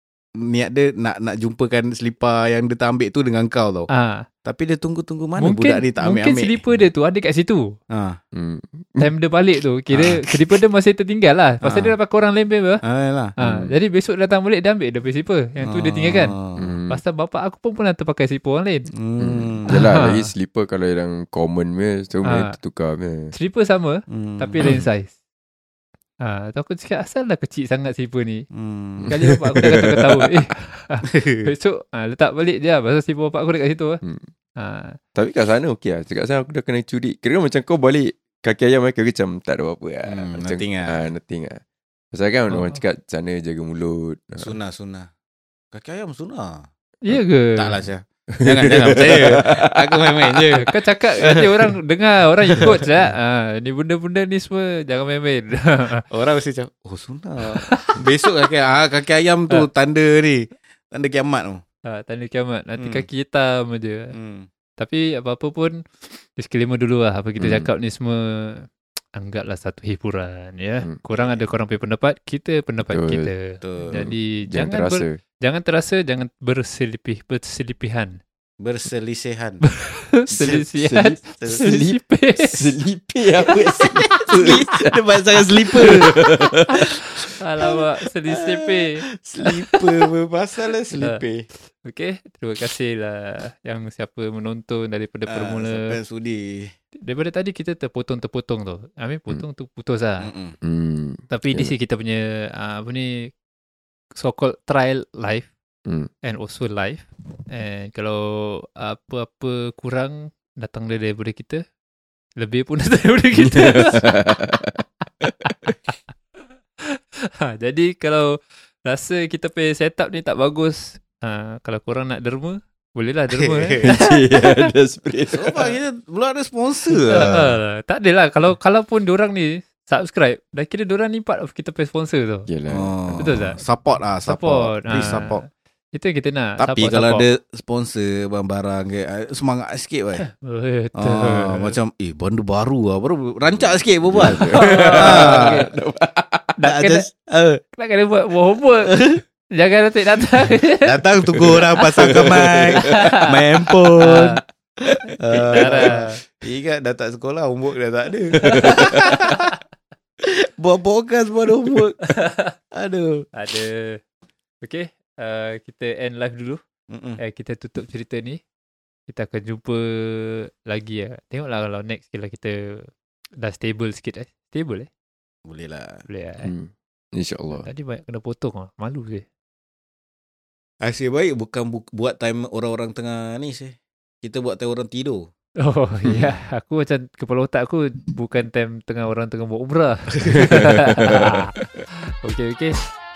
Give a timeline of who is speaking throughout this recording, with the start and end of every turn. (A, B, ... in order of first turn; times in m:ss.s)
0:00.5-0:03.9 A
0:03.9-0:04.3 B
0:04.4-0:06.6 A
0:05.4-0:07.6 B
0:08.4-0:09.1 C
0:09.0-0:12.8 B
0:09.9-0:10.2 A
0:11.6-0:11.9 A
0:12.8-0:13.3 A
0:13.4-0:16.4 B
0:13.4-0:13.7 C
0:15.6-0:16.7 A
0:16.6-0:17.0 C
0:16.9-0:18.9 B
0:18.9-0:19.8 A
0:19.2-0:23.3 C
0:19.7-0:20.3 B
0:22.3-0:22.6 B
0:23.3-0:25.1 B
0:24.1-0:24.8 A
0:24.6-0:24.9 C
0:26.2-0:28.5 B
0:28.5-0:29.1 A
0:29.1-0:30.3 C
0:29.1-0:34.0 B
0:31.1-0:31.5 A
0:34.6-0:35.0 B
0:35.2-0:41.6 C
0:40.0-0:41.0 A
0:42.1-0:44.5 C
0:42.5-0:42.8 B
0:44.4-0:45.1 A
0:45.7-0:46.7 A
0:47.0-0:47.8 B
0:47.6-0:51.7 A
0:48.4-0:50.4 C
0:50.6-0:56.0 B
0:56.1-1:01.6 A
0:57.6-0:58.0 B
1:01.9-1:04.2 B
1:02.8-1:03.0 A
1:04.1-1:04.5 A
1:04.8-1:05.8 B
1:06.4-1:18.2 B
1:07.4-1:07.7 C
1:11.2-1:11.5 A
1:12.8-1:13.3 C
1:13.6-1:14.0 A
1:13.9-1:15.2 C
1:18.6-1:19.6 A
1:19.6-1:22.7 B
1:20.3-1:25.0 C
1:21.4-1:21.7 A
1:23.8-1:26.2 A
1:25.8-1:26.9 C
1:26.7-1:30.1 B
1:27.6-1:31.4 A
1:30.9-1:31.2 B
1:31.8-1:36.0 B
1:35.3-1:36.7 A
1:37.0-1:40.3 B
1:40.2-1:40.6 A
1:40.6-1:41.7 C
1:41.3-1:43.3 B
1:44.2-1:45.5 B
1:46.2-1:51.6 B
1:52.4-1:54.2 B
1:53.4-1:55.7 C
1:57.4-1:58.3 B
1:58.8-2:04.7 B
2:03.3-2:03.9 A
2:03.8-2:05.7 C
2:05.3-2:07.6 A
2:06.9-2:12.5 B
2:12.5-2:13.4 C
2:12.7-2:15.4 A
2:13.2-2:13.6 B
2:14.3-2:17.2 B
2:14.9-2:15.3 C
2:16.6-2:20.2 A
2:20.2-2:21.8 B
2:21.0-2:25.7 A
2:23.6-2:26.5 C
2:24.3-2:25.7 B
2:26.6-2:27.1 B
2:26.6-2:27.6 A
2:27.7-2:32.2 B
2:28.8-2:29.2 A
2:30.8-2:34.4 A
2:31.5-2:33.2 C
2:32.8-2:33.2 B
2:34.0-2:34.4 B
2:35.2-2:39.5 A
2:35.5-2:36.0 C
2:35.5-2:36.2 B
2:38.4-2:39.1 C
2:38.4-2:39.6 B
2:40.2-2:42.1 A
2:42.0-2:42.4 B
2:42.8-2:43.3 A
2:43.3-2:43.8 B
2:44.6-2:46.6 B
2:46.9-2:47.2 A
2:47.2-2:48.4 B
2:49.1-2:52.9 B
2:53.4-2:54.9 B
2:55.5-2:56.0 A
2:56.1-2:56.5 B
2:56.4-2:57.6 C
2:57.6-2:59.2 B
3:00.8-3:05.3 A
3:05.6-3:11.5 B
3:06.0-3:06.3 C
3:10.3-3:11.6 C
3:12.2-3:12.9 B